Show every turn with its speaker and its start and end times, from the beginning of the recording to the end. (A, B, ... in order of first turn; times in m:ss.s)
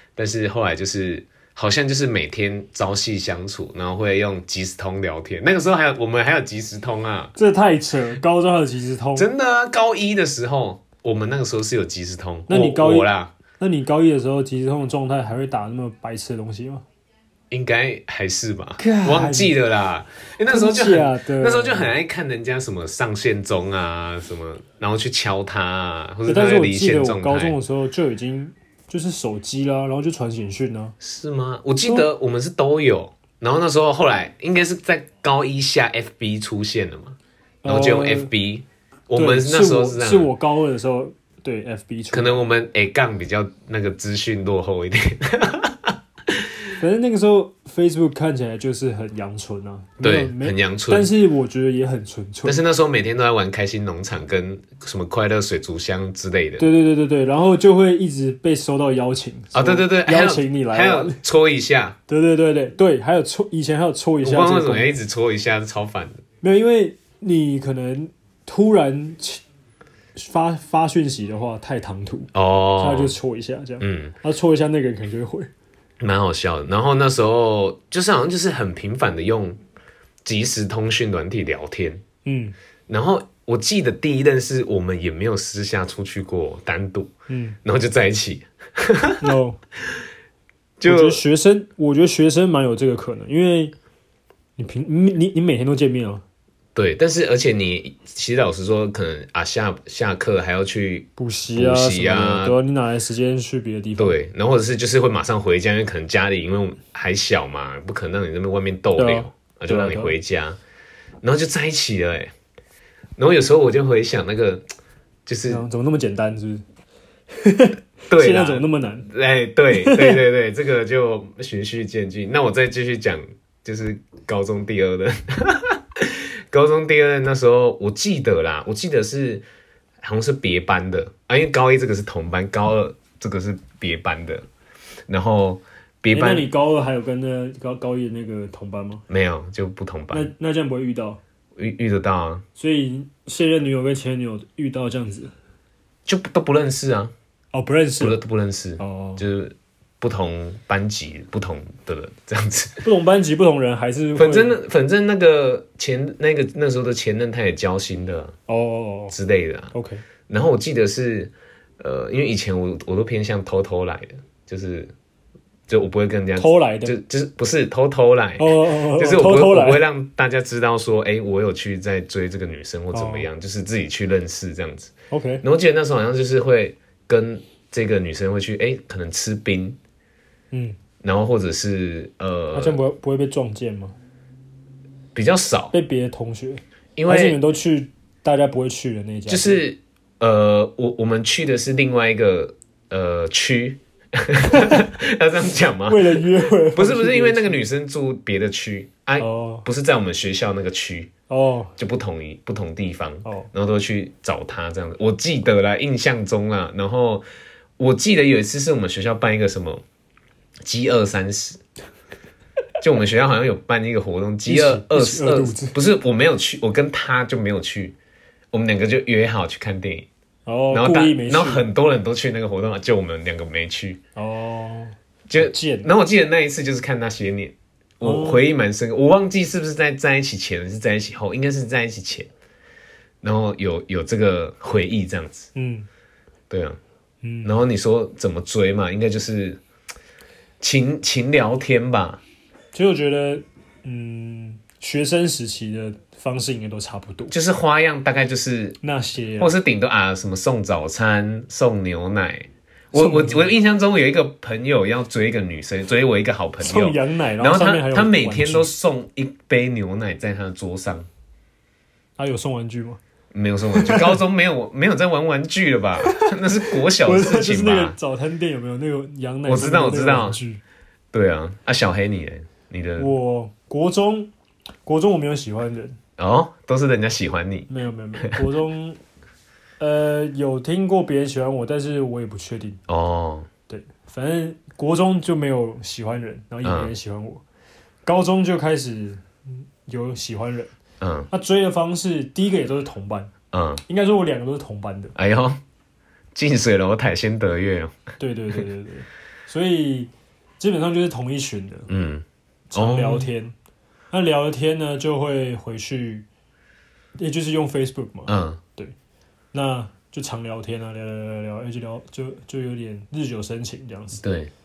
0:00.2-0:07.3 A
0:07.4-0:09.3 B
0:09.2-0:13.3 A
0:12.5-0:16.8 B
0:17.5-0:27.6 A
0:18.8-0:19.6 B
0:20.5-0:21.9 B
0:26.2-0:30.9 B
0:31.0-0:40.3 A
0:37.6-0:38.3 B
0:39.1-0:42.4 B
0:42.1-0:46.5 A
0:46.8-0:52.6 B
0:50.0-0:51.1 A
0:52.4-0:56.7 A
0:56.6-1:01.2 B
0:59.5-1:02.0 A
1:02.1-1:05.0 B
1:04.2-1:06.2 A
1:06.4-1:09.4 B
1:10.1-1:15.5 B
1:12.3-1:13.1 A
1:13.8-1:14.1 A
1:16.0-1:19.6 A
1:20.2-1:22.0 A
1:22.2-1:22.6 B
1:22.9-1:27.1 A
1:27.3-1:27.6 B
1:27.6-1:29.2 A
1:29.2-1:29.6 B
1:30.8-1:31.2 A
1:30.8-1:33.7 B
1:34.6-1:36.2 B
1:36.7-1:42.6 A
1:41.2-1:44.2 B
1:44.0-1:50.6 A
1:49.0-1:50.1 B
1:51.2-1:52.3 A
1:53.2-1:54.6 A
1:55.2-1:55.6 A
1:55.5-1:56.6 B
1:57.3-1:59.1 B
1:58.1-2:09.4 A
1:59.7-2:00.2 B
2:10.0-2:14.4 A
2:15.1-2:16.5 A
2:16.1-2:19.0 B
2:19.1-2:20.3 A
2:20.1-2:21.2 B
2:21.6-2:22.4 A
2:22.6-2:25.3 B
2:26.0-2:27.1 A
2:27.5-2:28.2 B
2:28.0-2:32.8 A
2:28.8-2:29.2 B
2:32.8-2:34.6 B
2:34.2-2:38.3 A
2:38.5-2:39.1 B
2:39.1-2:39.7 A
2:39.7-2:40.0 B
2:40.3-2:44.9 A
2:45.7-2:54.9 A
2:46.4-2:47.0 B
2:48.4-2:49.8 B
2:52.9-2:53.3 B
2:55.1-2:55.4 B
2:55.4-2:59.8 A
3:00.5-3:00.8 B
3:01.0-3:02.8 A
3:02.5-3:03.9 B
3:05.1-3:05.7 A
3:05.7-3:09.6 B
3:07.0-3:07.4 A
3:09.3-3:21.1 A
3:14.5-3:14.8 B
3:15.8-3:17.6 B
3:19.2-3:19.6 B
3:21.3-3:21.7 B
3:21.8-3:27.2 A
3:27.8-3:29.8 A
3:30.6-3:31.6 A
3:32.8-3:38.0 A
3:34.4-3:35.8 B
3:38.5-3:40.1 A
3:40.4-3:41.6 B
3:40.7-3:44.0 A
3:44.2-3:45.9 B
3:45.3-3:52.3 A
3:48.0-3:48.4 B
3:53.2-3:55.5 A
3:55.5-3:55.9 B
3:56.5-3:56.8 A
3:57.2-3:57.5 B
3:57.4-3:59.6 A
4:00.6-4:02.2 A
4:02.7-4:07.3 B
4:07.3-4:08.8 A
4:08.8-4:09.5 B
4:09.4-4:21.1 A
4:12.9-4:13.5 B
4:16.6-4:18.7 B
4:22.2-4:23.0 B
4:23.3-4:28.0 A
4:23.7-4:24.2 B
4:26.0-4:30.6 B
4:29.4-4:30.4 A
4:31.1-4:33.1 A
4:33.0-4:34.3 B
4:34.8-4:36.0 B
4:36.2-4:38.4 A
4:37.7-4:39.0 B
4:39.8-4:42.8 B
4:42.9-4:43.5 A
4:43.7-4:47.4 B
4:46.6-4:46.9 A
4:48.0-4:50.7 B
4:51.0-4:51.3 A
4:51.3-4:53.3 B
4:53.5-4:53.8 A
4:53.9-4:55.1 B
4:55.2-4:55.6 A
4:56.3-4:58.1 A
4:58.2-5:01.9 B
5:01.9-5:03.3 A
5:02.7-5:03.6 B
5:04.1-5:06.2 B
5:07.2-5:08.9 B
5:08.3-5:08.6 A
5:09.5-5:14.2 B
5:14.2-5:14.5 A